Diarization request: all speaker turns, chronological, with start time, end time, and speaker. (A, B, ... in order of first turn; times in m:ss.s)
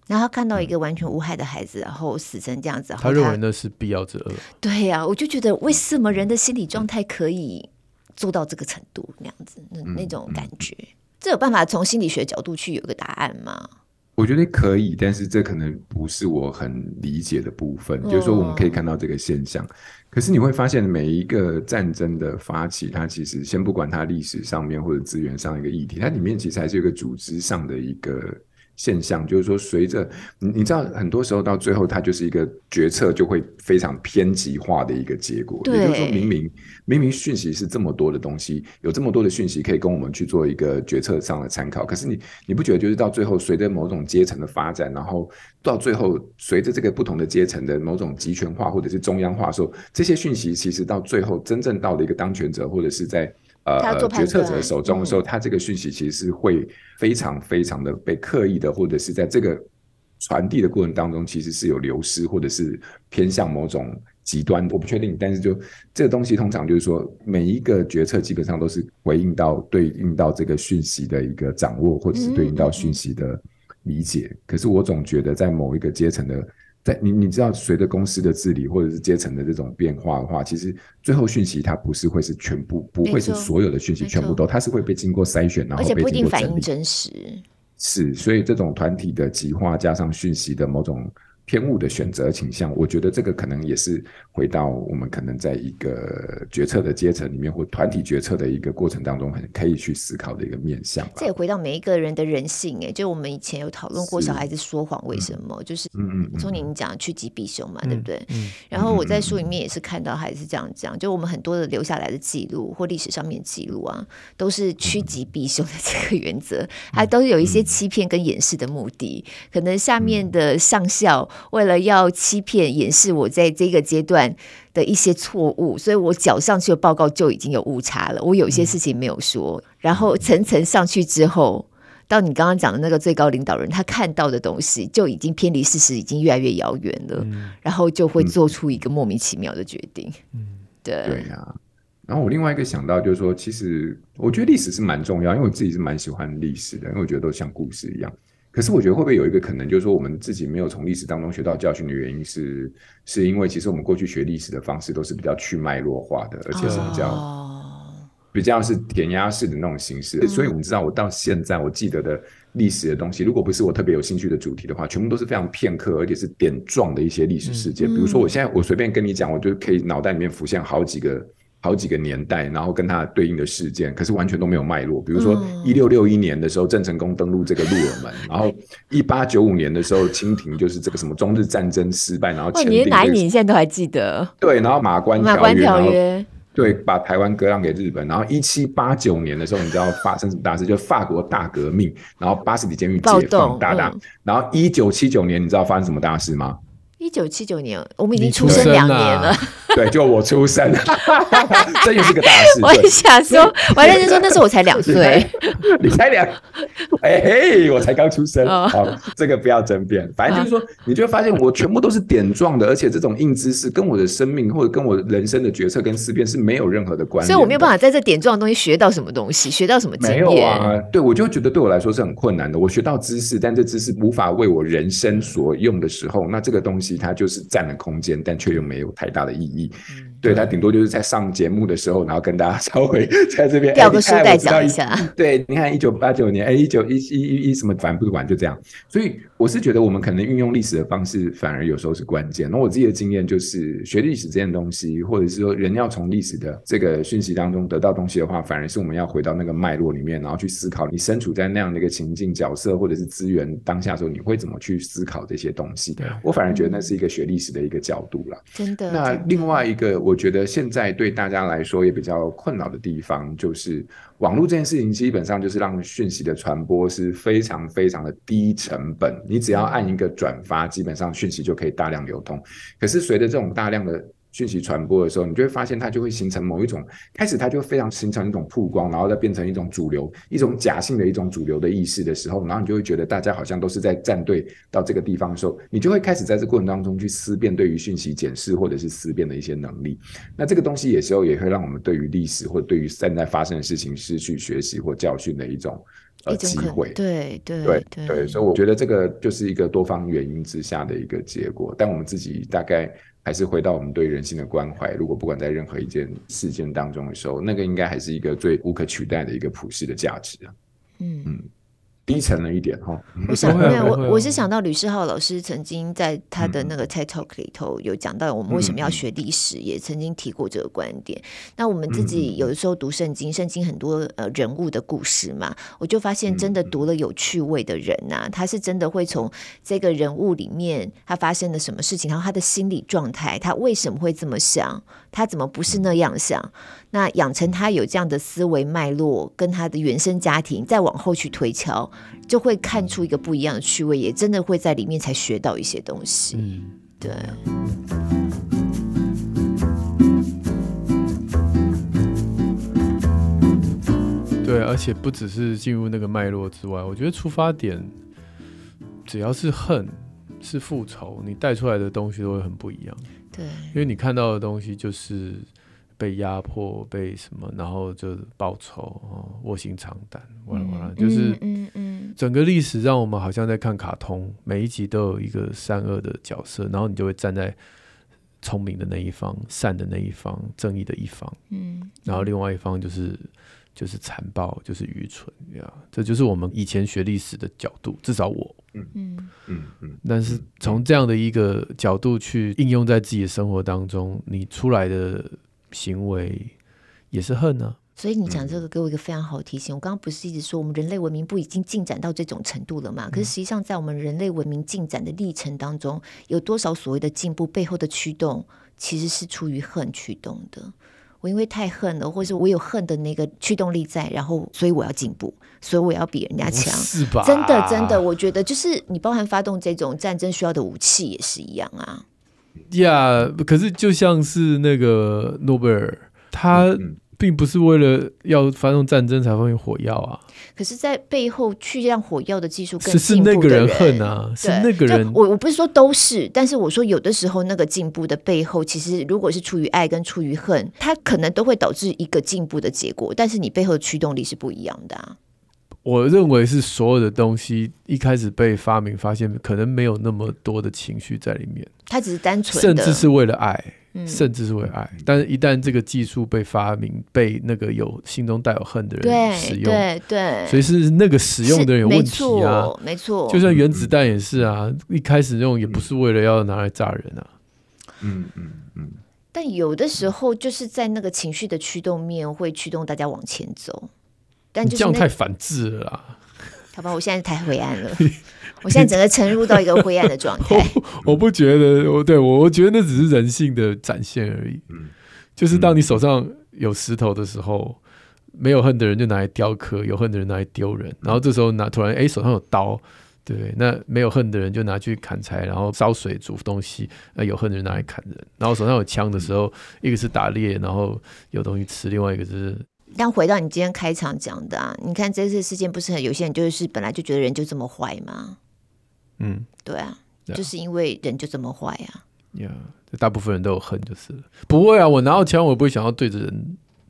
0:00.1-0:03.4 A
0:03.0-0:04.5 B
0:04.6-0:13.7 A
0:09.8-0:10.6 C
0:14.2-0:59.7 C
0:18.0-0:18.8 A
0:35.6-0:36.3 A
0:53.8-0:55.2 A
1:00.2-1:26.7 C
1:12.1-1:13.0 A
1:23.0-1:24.4 A
1:25.8-1:27.4 A
1:27.8-1:41.3 C
1:41.2-2:20.2 A
1:44.0-1:44.5 C
1:45.9-1:46.7 C
1:47.9-1:48.6 B
1:48.7-1:49.4 C
1:57.4-1:57.7 C
2:00.0-2:00.2 C
2:09.9-2:10.3 C
2:17.2-2:17.6 B
2:20.3-2:20.6 B
2:20.8-2:21.3 A
2:21.0-2:37.2 C
2:36.5-2:38.0 A
2:36.6-2:37.2 B
2:38.3-3:03.2 C
2:40.2-2:40.5 A
2:47.4-2:47.7 B
2:47.8-2:48.3 A
2:55.1-2:55.8 A
3:02.5-3:04.3 A
3:04.4-3:06.0 C
3:05.2-3:06.3 A
3:06.5-3:16.6 C
3:13.0-3:14.0 A
3:17.0-3:19.6 A
3:18.1-3:19.6 B
3:18.4-3:18.8 C
3:19.7-3:26.4 C
3:21.3-3:25.5 A
3:27.0-3:37.7 C
3:28.4-3:29.0 A
3:37.2-3:40.8 A
3:40.0-4:57.0 C
3:49.9-3:50.2 A
3:53.7-3:55.1 A
4:16.5-4:17.0 A
4:18.5-4:19.7 A
4:29.5-4:30.0 A
4:56.3-4:58.4 A
4:57.6-5:10.5 C
5:11.0-5:11.4 A
5:12.1-5:13.9 C
5:13.3-5:46.4 A
5:13.4-5:14.4 B
5:16.4-5:16.7 C
5:18.5-5:19.0 C
5:21.9-5:22.5 C
5:26.3-5:26.7 C
5:46.3-5:47.0 B
5:47.0-5:47.4 A
5:54.4-5:57.9 B
5:59.0-6:03.1 B
6:03.3-6:03.7 A
6:03.7-6:05.5 B
6:06.0-6:11.4 B
6:10.5-6:12.2 A
6:12.2-6:17.6 B
6:18.4-6:21.4 B
6:21.5-6:22.3 A
6:22.0-6:28.6 B
6:28.9-6:29.3 A
6:29.5-6:30.8 C
6:30.0-6:36.5 B
6:37.1-6:37.8 B
6:38.0-7:02.0 A
6:38.3-6:38.6 C
6:56.4-6:58.0 B
7:02.7-7:10.2 B
7:06.5-7:06.9 C
7:10.6-7:25.2 A
7:12.8-7:15.2 B
7:25.8-7:31.7 B
7:31.9-7:33.0 A
7:32.5-7:39.9 B
7:33.9-7:34.3 A
7:34.6-7:35.1 C
7:39.0-7:40.6 A
7:40.4-7:42.7 B
7:41.4-7:43.4 A
7:43.3-7:47.3 B
7:43.5-7:44.5 C
7:48.0-7:49.0 C
7:49.3-7:53.9 A
7:54.5-7:55.0 A
7:54.6-7:56.3 B
7:56.7-7:58.1 A
7:58.0-8:04.6 B
7:58.6-8:00.8 A
8:05.4-8:07.8 B
8:05.5-8:06.0 C
8:08.3-8:22.6 B
8:23.0-8:28.4 A
8:29.2-8:29.5 B
8:29.6-8:32.0 A
8:32.3-8:36.6 B